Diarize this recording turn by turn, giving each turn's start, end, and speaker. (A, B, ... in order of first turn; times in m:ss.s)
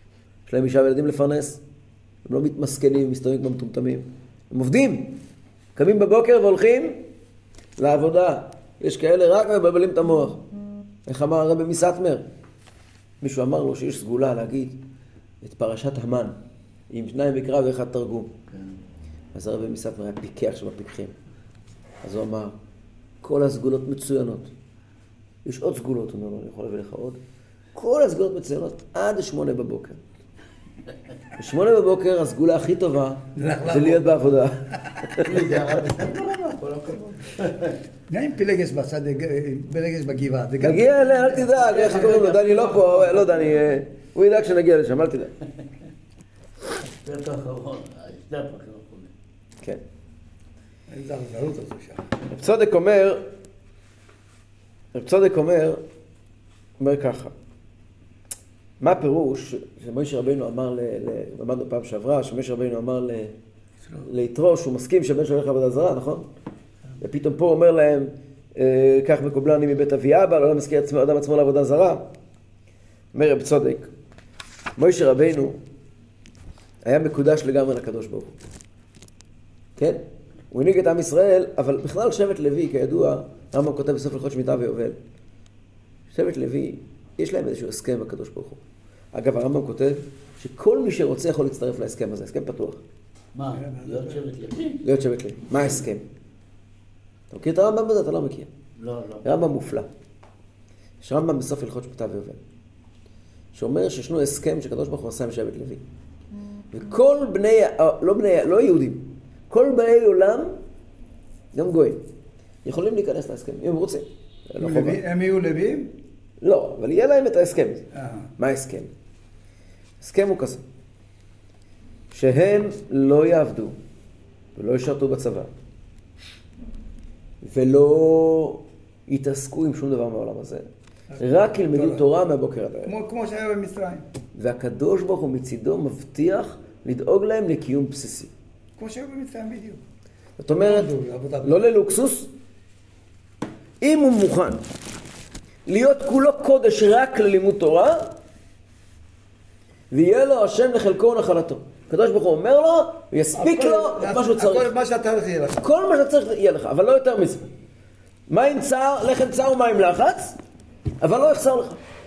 0:00.5-0:01.6 A
0:02.2-0:05.2 A
0:05.8-0:07.0 A
0:07.8-0:10.4 A
0:11.1-0:12.2 A
0:13.2-0:14.8 A
0:15.4-0:16.4 A
0:16.9-0:18.3 A
0:19.3-0:21.1 A
0:22.0-0:22.5 A
0:23.2-0:24.5 A
0:25.4-0:27.2 A
0:27.8-0:30.0 A
0:31.4-0:35.4 A
0:33.4-0:34.1 B
0:35.2-0:37.8 C
0:38.1-0:41.5 B
0:40.6-0:45.3 A
0:41.4-0:43.5 C
0:47.0-0:49.1 C
0:50.9-0:52.0 B
0:52.3-0:53.2 A
0:54.9-0:55.8 A
0:56.8-0:57.3 A
0:58.8-1:03.3 A
1:04.0-1:06.3 A
1:07.0-1:12.1 A
1:13.1-1:13.9 A
1:14.8-1:15.6 A
1:16.8-1:18.3 A
1:19.8-1:25.0 A
1:26.1-1:28.6 A
1:29.1-1:32.8 A
1:33.3-1:34.8 C
1:33.6-1:34.2 B
1:34.8-1:36.0 A
1:37.3-1:38.5 A
1:38.8-1:39.2 C
1:39.2-1:39.9 A
1:41.0-1:42.4 A
1:43.5-1:45.8 A
1:46.7-1:50.5 A
1:51.5-1:52.0 A
1:52.6-1:55.0 A
1:54.6-1:55.9 B
1:56.4-1:57.8 A
1:57.9-1:58.3 B
1:58.4-1:58.9 A
2:00.0-2:00.6 A
2:02.1-2:03.8 A
2:04.6-2:05.5 A
2:07.4-2:10.7 A
2:11.1-2:12.1 B
2:11.2-2:12.9 A
2:12.8-2:14.0 B
2:14.4-2:18.3 A
2:18.8-2:19.8 B
2:20.4-2:20.9 A
2:20.6-2:21.5 B
2:21.4-2:22.3 A
2:23.8-2:24.6 A
2:25.7-2:28.1 A
2:29.9-2:34.7 A
2:33.4-2:35.7 B
2:35.6-2:37.5 A
2:38.3-2:40.4 A
2:41.0-2:41.8 A